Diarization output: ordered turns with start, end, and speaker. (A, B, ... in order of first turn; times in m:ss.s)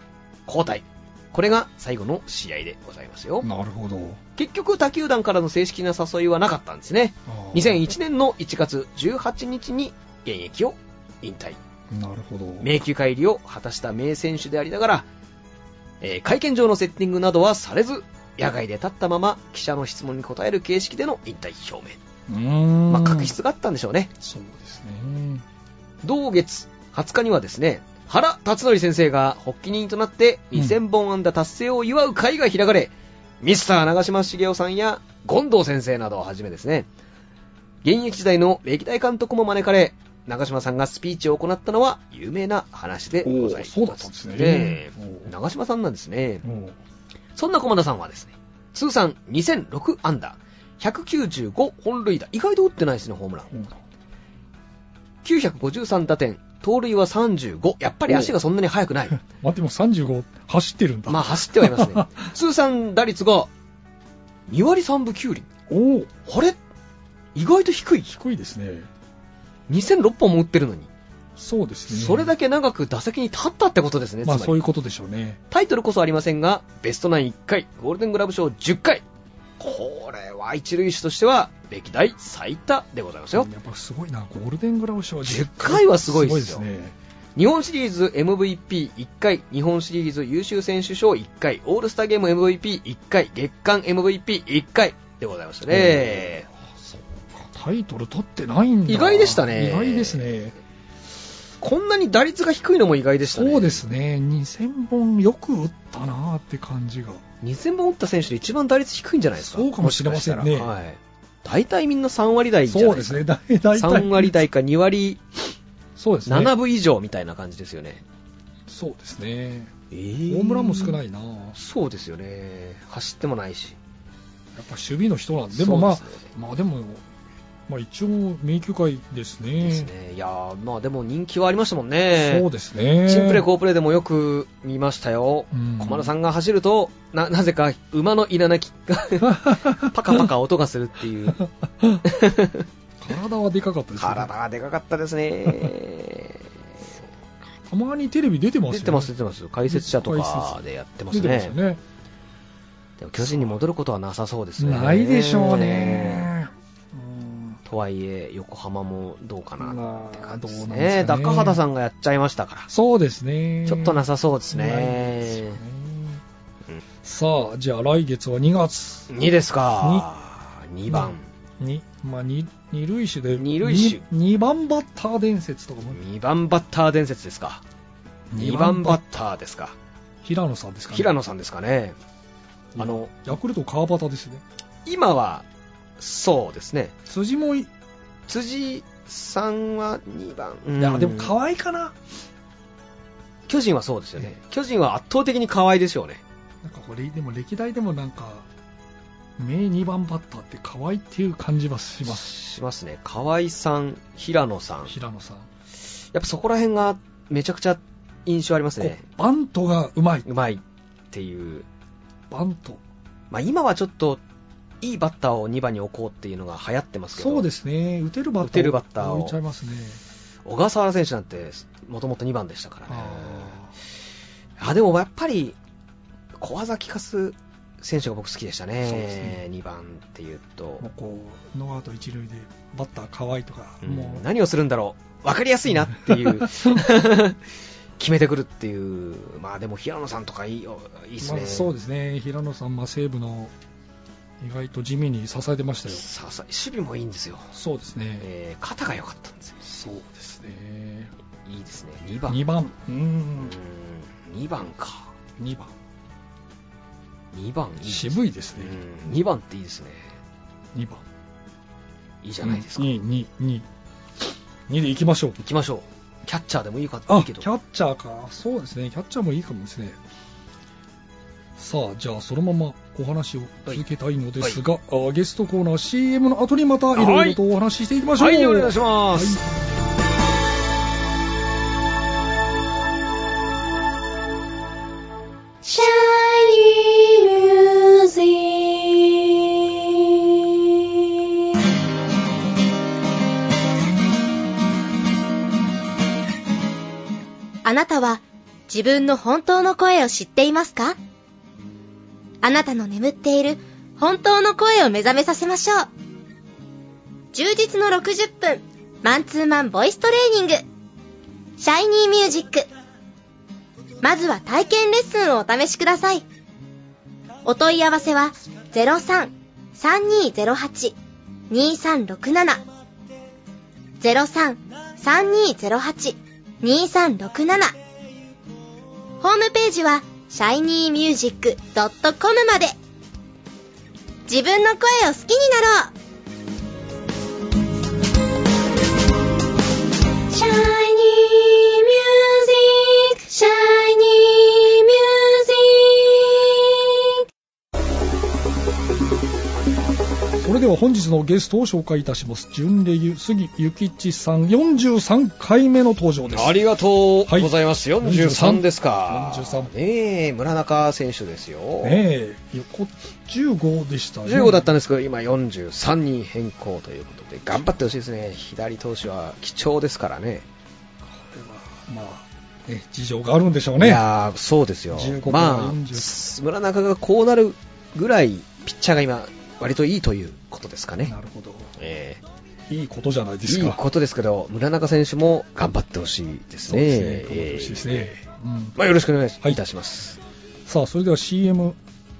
0:00.5-0:03.5 A
0:03.4-0:04.2 B
0:04.4-0:11.6 A
0:07.3-0:07.8 B
0:11.9-0:12.7 B
0:12.6-0:15.1 A
0:16.0-0:22.0 A
0:22.3-0:23.3 B
0:22.9-0:24.1 A
0:24.2-0:25.4 B
0:26.0-0:36.9 A
0:37.8-0:46.4 A
0:43.2-0:45.3 B
0:46.4-0:46.8 B
0:47.4-0:53.5 A
0:53.5-0:53.8 B
0:55.2-0:59.2 A
0:58.1-0:58.3 B
0:59.2-1:02.3 B
1:01.1-1:03.5 A
1:04.5-1:05.5 A
1:05.7-1:06.1 B
1:06.3-1:06.6 A
1:07.4-1:08.2 A
1:08.2-1:08.9 B
1:09.7-1:10.9 A
1:11.4-1:12.3 B
1:11.9-1:14.6 A
1:14.2-1:15.4 B
1:15.5-1:19.0 A
1:19.6-1:23.5 A
1:23.3-1:27.0 B
1:25.3-1:26.6 A
1:27.4-1:36.5 A
1:35.7-1:40.6 B
1:38.9-1:40.2 A
1:41.6-1:43.8 A
1:43.3-1:47.2 B
1:47.4-1:53.2 A
1:49.4-1:50.7 B
1:52.7-1:54.4 B
1:53.8-1:55.2 A
1:56.0-1:56.5 B
1:56.3-1:58.0 A
1:58.7-1:59.7 B
1:59.9-2:01.0 A
2:00.3-2:01.6 B
2:01.6-2:03.8 A
2:04.6-2:07.0 B
2:05.5-2:06.3 A
2:07.7-2:09.9 B
2:09.6-2:12.5 A
2:12.2-2:13.4 B
2:13.0-2:21.4 A
2:15.5-2:16.1 B
2:19.2-2:20.3 B
2:21.4-2:22.0 B
2:22.0-2:22.7 A
2:23.0-2:24.3 B
2:24.0-2:26.4 A
2:27.6-2:29.1 B
2:28.7-2:31.6 A
2:29.7-2:31.8 B
2:33.0-2:36.3 A
2:33.2-2:33.5 B
2:34.6-2:37.6 B
2:37.6-2:42.7 A
2:39.6-2:41.6 B
2:42.7-2:46.2 B
2:43.7-2:45.6 A
2:47.0-2:49.1 B
2:49.1-2:51.3 A
2:49.8-2:50.1 B
2:50.9-2:56.0 B
2:53.4-2:54.0 A
2:55.9-2:57.6 A
2:58.3-2:59.0 B
2:58.4-2:59.8 A
3:00.2-3:01.2 B
3:00.9-3:02.0 A
3:02.8-3:04.4 B
3:02.8-3:03.1 A
3:04.9-3:05.4 A
3:06.0-3:06.9 A
3:07.1-3:07.7 B
3:08.3-3:11.3 A
3:10.8-3:12.0 B
3:13.5-3:16.2 A
3:16.6-3:18.5 B
3:19.4-3:22.3 B
3:22.0-3:24.9 A
3:24.9-3:25.5 B
3:26.1-3:29.0 A
3:28.8-3:30.3 B
3:30.3-3:31.7 A
3:32.3-3:32.8 B
3:33.3-3:34.2 A
3:34.8-3:37.5 A
3:37.2-3:40.0 B
3:38.4-3:39.4 A
3:40.5-3:43.6 A
3:42.9-3:43.7 B
3:44.6-3:45.6 A
3:46.4-3:50.8 A
3:48.8-3:49.4 B
3:50.8-3:54.2 B
3:53.8-3:57.4 A
3:55.8-3:56.8 B
3:58.0-4:01.7 A
4:01.2-4:03.5 B
4:04.4-4:06.0 B
4:05.9-4:07.5 A
4:07.5-4:08.3 B
4:08.2-4:09.6 A
4:09.6-4:11.1 B
4:11.5-4:12.4 A
4:12.3-4:13.6 B
4:13.4-4:15.1 A
4:15.4-4:15.7 B
4:17.3-4:20.1 A
4:17.9-4:18.8 B
4:20.7-4:21.0 B
4:22.2-4:22.9 A
4:22.4-4:23.7 B
4:24.2-4:25.4 B
4:25.4-4:27.5 A
4:27.1-4:30.0 B
4:31.6-4:39.9 B
4:37.0-4:37.4 A
4:38.2-4:39.4 A
4:45.7-4:46.6 C
4:57.6-5:01.0 C
5:02.4-5:05.9 C
5:07.3-5:10.6 C
5:11.6-5:12.7 C
5:14.0-5:16.2 C
5:17.4-5:21.0 C
5:21.5-5:22.6 C
5:24.0-5:27.8 C
5:29.2-5:32.8 C
5:34.3-5:35.9 C
5:40.3-5:41.0 C
5:41.6-5:42.7 C
5:43.4-5:44.0 C
5:50.4-5:56.6 B
5:56.3-6:02.0 A
5:57.3-5:59.7 B
6:01.8-6:04.7 B
6:04.3-6:10.5 A
6:11.0-6:14.0 B
6:13.8-6:21.1 A
6:14.9-6:16.2 B
6:21.0-6:21.7 B
6:21.8-6:22.2 A
6:22.7-6:23.8 B
6:23.5-6:28.2 A
6:26.7-6:28.8 B
6:28.8-6:30.2 A
6:30.7-6:31.8 B